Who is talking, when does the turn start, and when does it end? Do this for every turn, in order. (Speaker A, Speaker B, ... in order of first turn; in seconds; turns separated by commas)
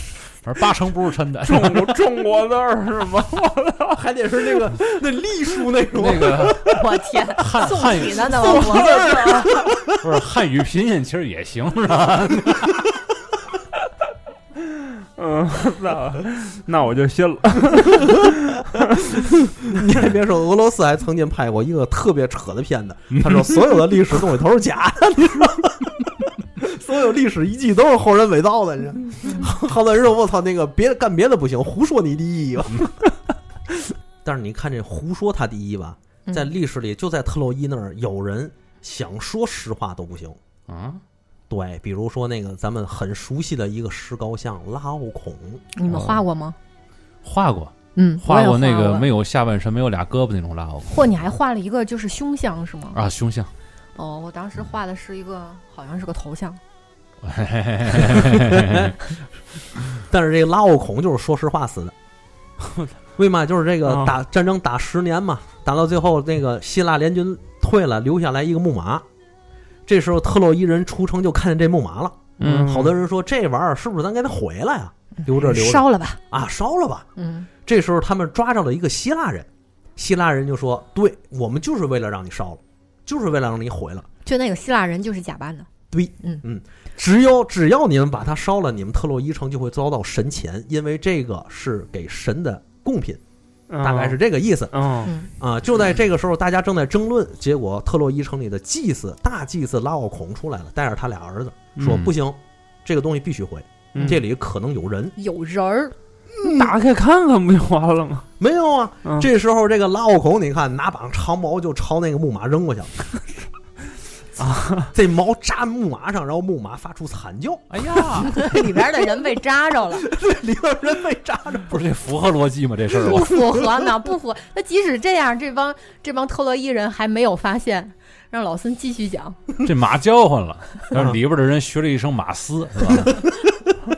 Speaker A: 0.4-2.0, Speaker B: 1.4-4.0, Speaker C: 3.9-6.8, Speaker A: 5.9-6.7, Speaker D: 6.7-9.5, Speaker A: 7.3-8.9, Speaker C: 8.7-9.8, Speaker A: 9.8-12.8, Speaker B: 14.7-19.1, Speaker C: 19.2-33.0, Speaker A: 23.1-23.4, Speaker C: 34.2-40.4, Speaker A: 40.7-41.0, Speaker C: 41.5-45.6, Speaker D: 45.7-46.6, Speaker A: 45.9-46.2, Speaker A: 47.2-51.0, Speaker D: 48.0-49.1, Speaker D: 50.9-53.0, Speaker A: 52.9-53.5, Speaker D: 54.0-56.6, Speaker A: 57.2-58.9, Speaker C: 58.1-59.0, Speaker C: 60.0-61.9, Speaker C: 63.2-69.0, Speaker B: 63.9-64.1, Speaker C: 69.8-77.1, Speaker B: 72.4-72.9, Speaker D: 75.3-76.2, Speaker D: 77.2-77.5, Speaker C: 77.6-84.1, Speaker D: 84.2-85.7, Speaker C: 85.9-93.2, Speaker B: 93.7-94.2, Speaker C: 93.8-94.7, Speaker B: 94.7-95.1, Speaker C: 95.4-105.1, Speaker B: 101.8-102.0, Speaker A: 101.8-102.1, Speaker B: 103.9-104.2, Speaker D: 105.2-105.9, Speaker C: 106.4-106.7, Speaker B: 106.4-108.3, Speaker C: 108.4-113.1, Speaker B: 114.4-114.9, Speaker C: 114.9-118.2, Speaker A: 117.7-118.4, Speaker D: 118.2-120.1, Speaker C: 120.0-121.8, Speaker A: 121.7-123.4, Speaker D: 123.0-129.4, Speaker A: 129.6-133.2, Speaker C: 132.8-133.8